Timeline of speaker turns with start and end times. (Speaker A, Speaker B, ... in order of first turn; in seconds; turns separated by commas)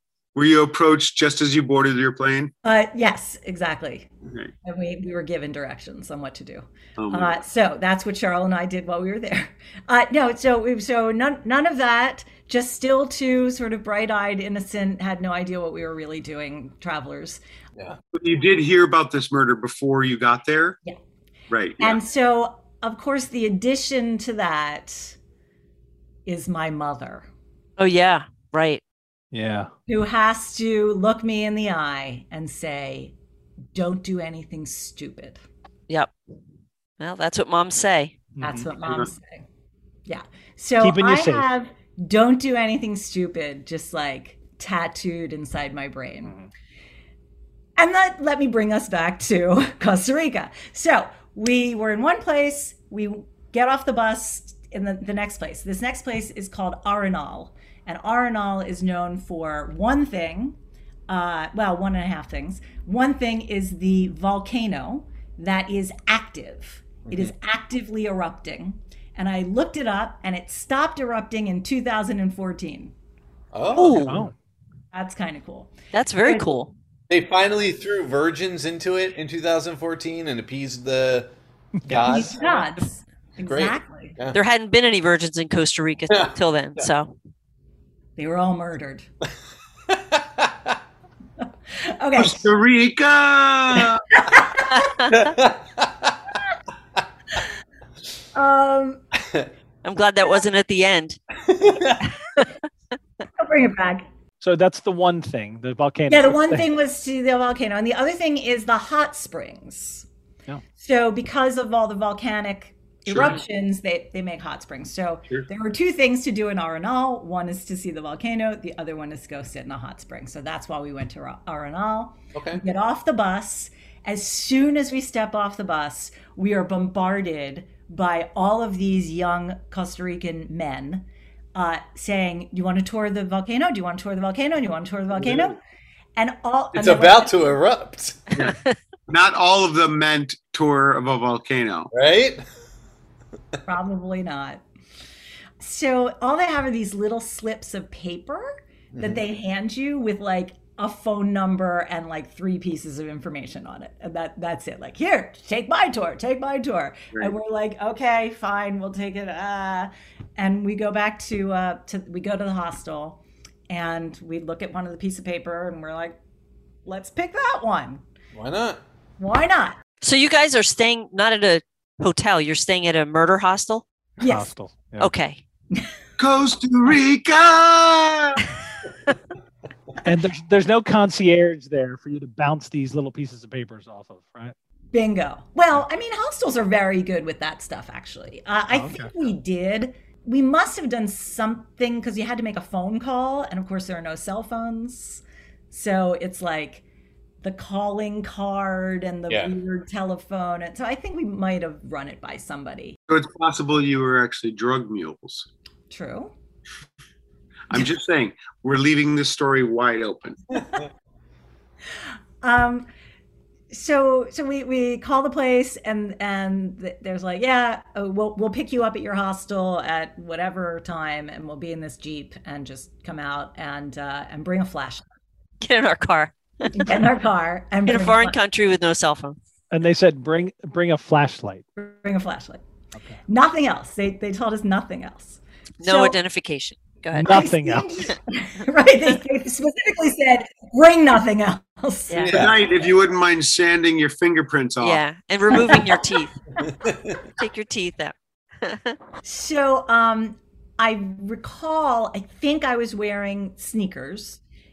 Speaker A: 0.3-2.5, Speaker B: 2.6-4.1, Speaker B: 4.7-17.4, Speaker A: 7.0-7.4, Speaker A: 18.1-20.8, Speaker A: 21.5-22.0, Speaker B: 21.8-25.2, Speaker B: 26.3-27.3, Speaker C: 27.8-28.8, Speaker D: 29.3-29.7, Speaker B: 29.9-33.1, Speaker B: 33.8-35.4, Speaker C: 37.0-38.2, Speaker D: 38.4-38.7, Speaker B: 38.4-39.5, Speaker A: 38.8-39.1, Speaker B: 40.1-46.3, Speaker D: 40.8-41.5, Speaker B: 47.8-60.6, Speaker B: 61.1-72.9, Speaker E: 73.5-74.3, Speaker C: 73.7-74.2, Speaker D: 74.0-74.3, Speaker B: 74.9-76.6, Speaker C: 75.9-76.7, Speaker E: 77.1-81.3, Speaker D: 81.8-82.3, Speaker E: 81.9-82.6, Speaker B: 82.0-84.2, Speaker E: 83.5-84.4, Speaker C: 84.3-87.1, Speaker E: 86.1-86.9, Speaker B: 88.2-89.1, Speaker E: 89.9-90.7, Speaker B: 91.8-92.5, Speaker A: 92.2-94.0, Speaker B: 94.1-94.9, Speaker C: 94.8-95.1, Speaker E: 95.1-96.2, Speaker B: 98.3-99.0, Speaker C: 99.8-101.2, Speaker E: 101.5-102.0, Speaker B: 103.4-104.1, Speaker D: 104.4-106.7, Speaker B: 106.1-110.1, Speaker B: 110.8-135.6, Speaker A: 113.1-113.4, Speaker E: 122.3-122.6, Speaker B: 136.2-137.5, Speaker E: 136.7-138.4, Speaker A: 139.1-141.9, Speaker E: 141.9-142.4, Speaker B: 143.7-144.6, Speaker B: 145.6-166.2, Speaker E: 148.9-149.2, Speaker B: 166.8-168.0, Speaker E: 168.3-168.8, Speaker B: 169.2-169.8, Speaker C: 170.0-173.8, Speaker B: 174.2-174.5, Speaker D: 174.2-175.1, Speaker C: 175.0-175.4, Speaker A: 176.2-178.4, Speaker D: 180.0-184.6, Speaker B: 184.9-196.8, Speaker D: 188.7-189.1, Speaker B: 197.4-203.0, Speaker E: 199.3-199.5, Speaker A: 203.1-205.5, Speaker B: 205.9-206.3, Speaker A: 207.7-210.6, Speaker B: 212.4-212.9, Speaker B: 213.7-225.1, Speaker C: 225.6-227.0, Speaker B: 226.7-228.4, Speaker C: 227.9-229.4, Speaker D: 229.7-231.7, Speaker B: 231.8-232.6, Speaker B: 233.3-236.2, Speaker C: 235.8-237.4, Speaker D: 237.1-238.0, Speaker B: 237.3-242.3, Speaker C: 242.1-242.3, Speaker E: 242.2-242.6, Speaker A: 242.3-245.0, Speaker C: 244.8-246.3, Speaker B: 245.5-246.2, Speaker E: 246.6-247.2, Speaker C: 247.4-249.0, Speaker B: 249.2-254.4